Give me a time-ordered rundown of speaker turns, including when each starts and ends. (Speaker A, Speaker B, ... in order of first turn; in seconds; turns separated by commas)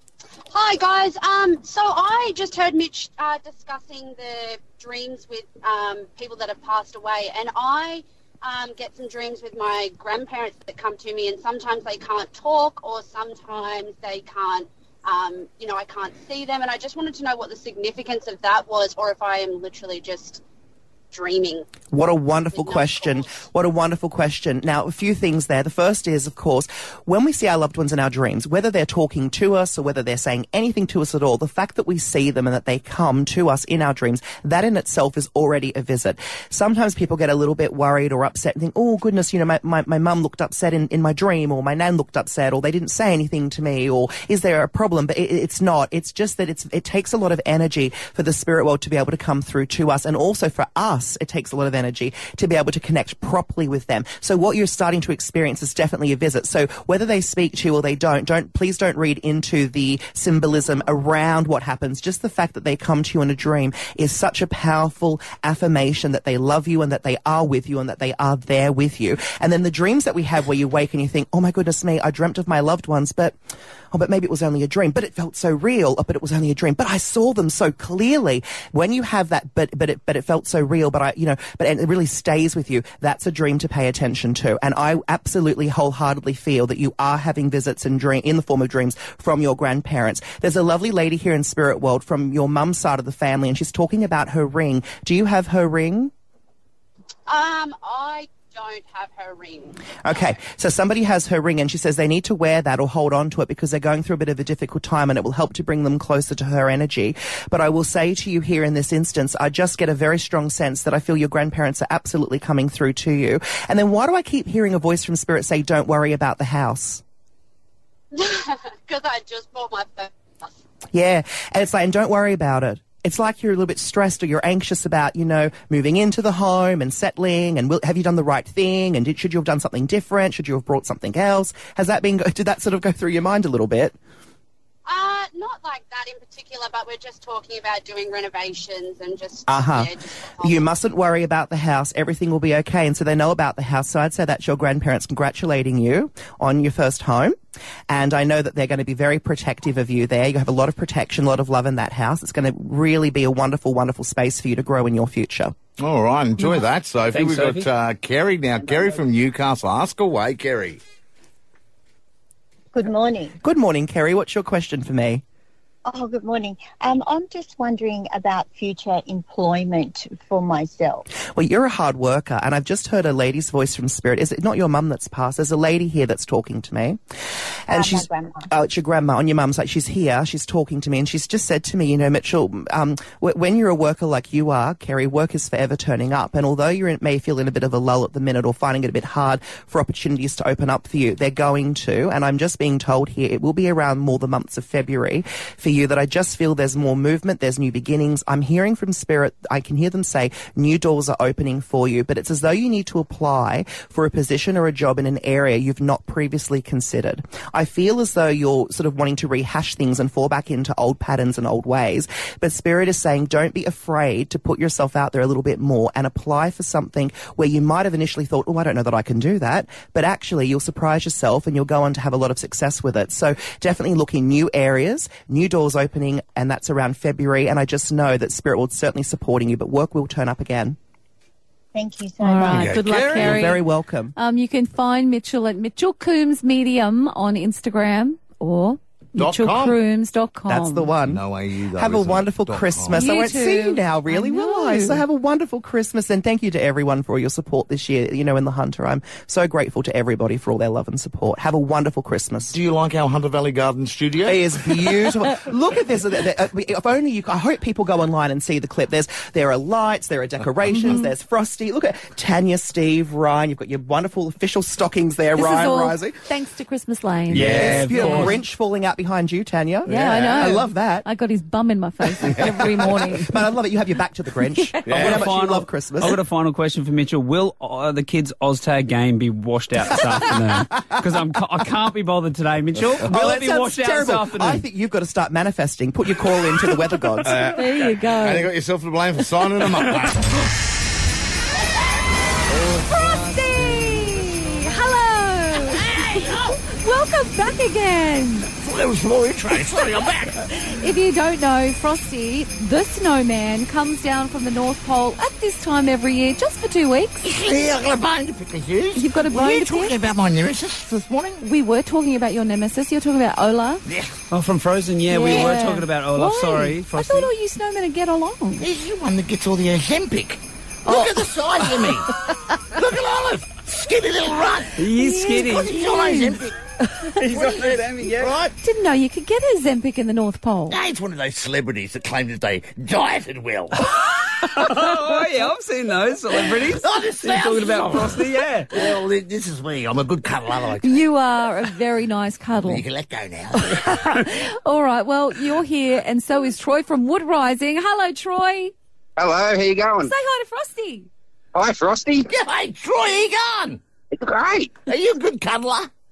Speaker A: 0.5-20.4, Speaker A: 21.1-21.7, Speaker B: 21.9-73.3, Speaker A: 22.5-23.3, Speaker B: 73.9-96.1, Speaker A: 97.3-99.8, Speaker B: 100.0-117.0, Speaker A: 118.1-120.1, Speaker B: 120.9-133.9, Speaker A: 134.8-140.7, Speaker B: 139.5-147.3, Speaker B: 147.9-155.5, Speaker C: 155.8-160.8, Speaker D: 157.1-157.7, Speaker E: 162.7-163.3, Speaker B: 163.4-165.2, Speaker E: 165.8-171.0, Speaker B: 171.1-177.0, Speaker B: 177.7-230.8, Speaker E: 177.7-178.5, Speaker E: 231.7-232.7, Speaker F: 232.2-233.6, Speaker C: 232.5-233.6, Speaker B: 233.0-234.1, Speaker F: 234.1-240.9, Speaker C: 239.2-239.8, Speaker B: 240.5-241.2, Speaker C: 241.0-243.0, Speaker B: 241.7-252.6, Speaker F: 242.9-245.0, Speaker C: 252.5-254.5, Speaker B: 254.2-266.2, Speaker F: 260.7-261.1, Speaker F: 265.4-268.4, Speaker C: 267.3-267.9, Speaker D: 267.3-268.3, Speaker B: 267.5-271.1, Speaker F: 269.9-273.4, Speaker B: 272.2-276.2, Speaker C: 274.9-275.3, Speaker D: 274.9-284.6, Speaker B: 283.0-287.4, Speaker C: 287.2-290.4, Speaker F: 287.4-288.5, Speaker C: 292.5-293.0, Speaker F: 292.8-298.5, Speaker C: 295.8-296.6, Speaker C: 298.6-300.5, Speaker F: 300.5-307.2, Speaker C: 307.2-311.4, Speaker F: 308.9-310.0, Speaker F: 311.4-313.8, Speaker C: 313.9-314.2, Speaker D: 314.3-317.3, Speaker F: 315.1-318.6, Speaker C: 318.6-322.1, Speaker F: 320.9-322.0, Speaker C: 322.6-324.9, Speaker D: 324.8-325.7, Speaker F: 324.9-327.2, Speaker C: 325.4-326.6, Speaker D: 327.1-328.3, Speaker C: 327.2-328.5, Speaker F: 328.6-330.8, Speaker C: 330.7-333.9, Speaker D: 334.2-338.7, Speaker C: 336.6-341.1, Speaker F: 340.8-342.9, Speaker C: 342.6-344.2, Speaker F: 343.5-348.7, Speaker G: 349.2-350.1, Speaker F: 350.0-351.1, Speaker G: 351.5-352.3, Speaker C: 352.2-353.8, Speaker G: 354.1-354.7, Speaker C: 354.9-355.9